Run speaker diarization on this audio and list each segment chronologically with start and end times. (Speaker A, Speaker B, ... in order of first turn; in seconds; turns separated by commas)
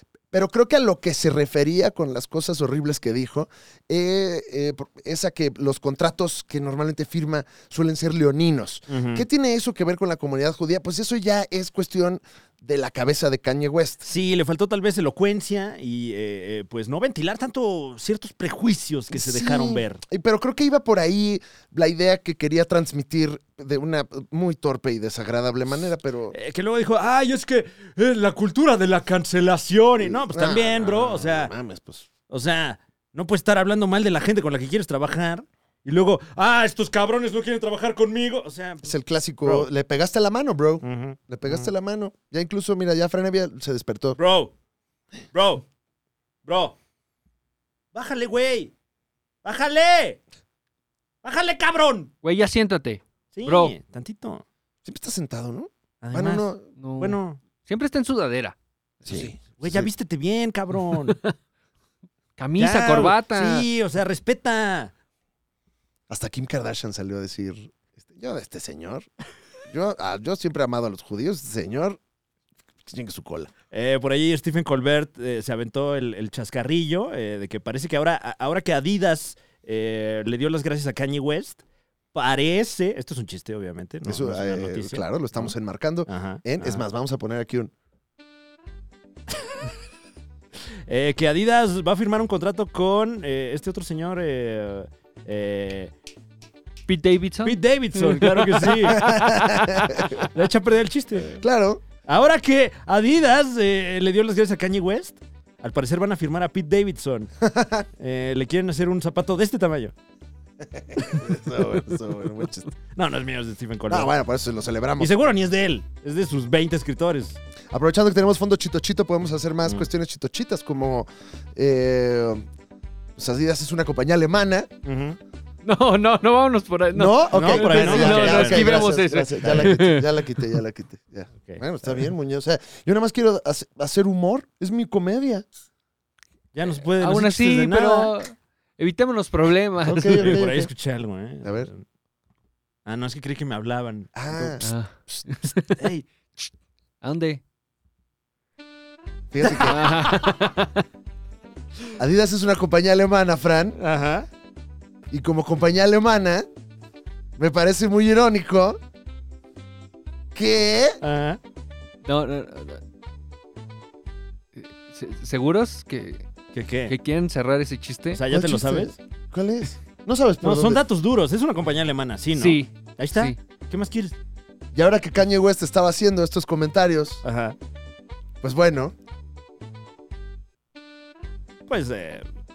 Speaker A: 0.3-14.1, Speaker B: 8.9-9.2, Speaker B: 14.0-20.0, Speaker A: 19.1-26.4, Speaker B: 26.3-31.5, Speaker A: 30.0-32.1, Speaker B: 32.3-38.9, Speaker A: 38.8-44.2, Speaker B: 40.8-41.7, Speaker B: 44.2-44.5, Speaker B: 45.3-45.6, Speaker B: 46.4-46.8, Speaker B: 47.9-48.7, Speaker B: 49.4-50.2, Speaker B: 51.2-52.1, Speaker C: 52.2-53.7, Speaker B: 53.3-54.4, Speaker A: 54.8-56.6, Speaker B: 56.0-57.4, Speaker C: 56.8-59.2, Speaker A: 59.0-59.9, Speaker B: 59.1-61.2, Speaker C: 60.9-61.3, Speaker C: 62.4-63.6, Speaker B: 62.6-64.9, Speaker A: 66.1-69.1, Speaker A: 69.7-72.0, Speaker A: 72.8-73.5, Speaker B: 73.7-81.6, Speaker B: 82.1-85.5, Speaker A: 84.0-87.7, Speaker B: 86.1-86.8, Speaker B: 90.8-95.9, Speaker C: 96.9-99.5, Speaker B: 97.4-101.4, Speaker A: 98.8-100.0, Speaker A: 101.3-101.8, Speaker B: 102.0-107.3, Speaker A: 107.4-107.8, Speaker B: 108.0-109.9, Speaker A: 110.6-112.7, Speaker B: 112.9-114.1, Speaker A: 113.9-115.2, Speaker B: 115.0-117.4, Speaker A: 117.7-122.5, Speaker A: 123.2-124.7, Speaker B: 124.8-125.2, Speaker C: 125.6-130.2, Speaker A: 126.9-135.4, Speaker B: 127.3-129.7, Speaker B: 136.5-138.1, Speaker C: 136.8-140.4, Speaker A: 139.8-140.7, Speaker B: 140.1-141.8, Speaker A: 141.4-141.7, Speaker B: 142.8-144.6, Speaker A: 144.1-145.2, Speaker C: 144.6-145.8, Speaker B: 145.7-146.1, Speaker C: 147.0-147.4, Speaker A: 149.3-149.9, Speaker C: 149.6-150.8, Speaker A: 152.0-153.8, Speaker B: 153.8-154.3, Speaker A: 155.1-156.5, Speaker A: 157.4-158.8, Speaker A: 160.3-161.0, Speaker B: 161.0-161.4, Speaker C: 162.0-162.8, Speaker C: 164.5-166.3, Speaker B: 166.5-166.9, Speaker C: 166.9-168.2, Speaker B: 168.1-168.9, Speaker A: 168.3-170.8, Speaker B: 170.4-174.1, Speaker C: 172.3-173.4, Speaker A: 174.7-177.2, Speaker B: 177.2-177.6, Speaker A: 178.4-178.9, Speaker B: 181.7-182.2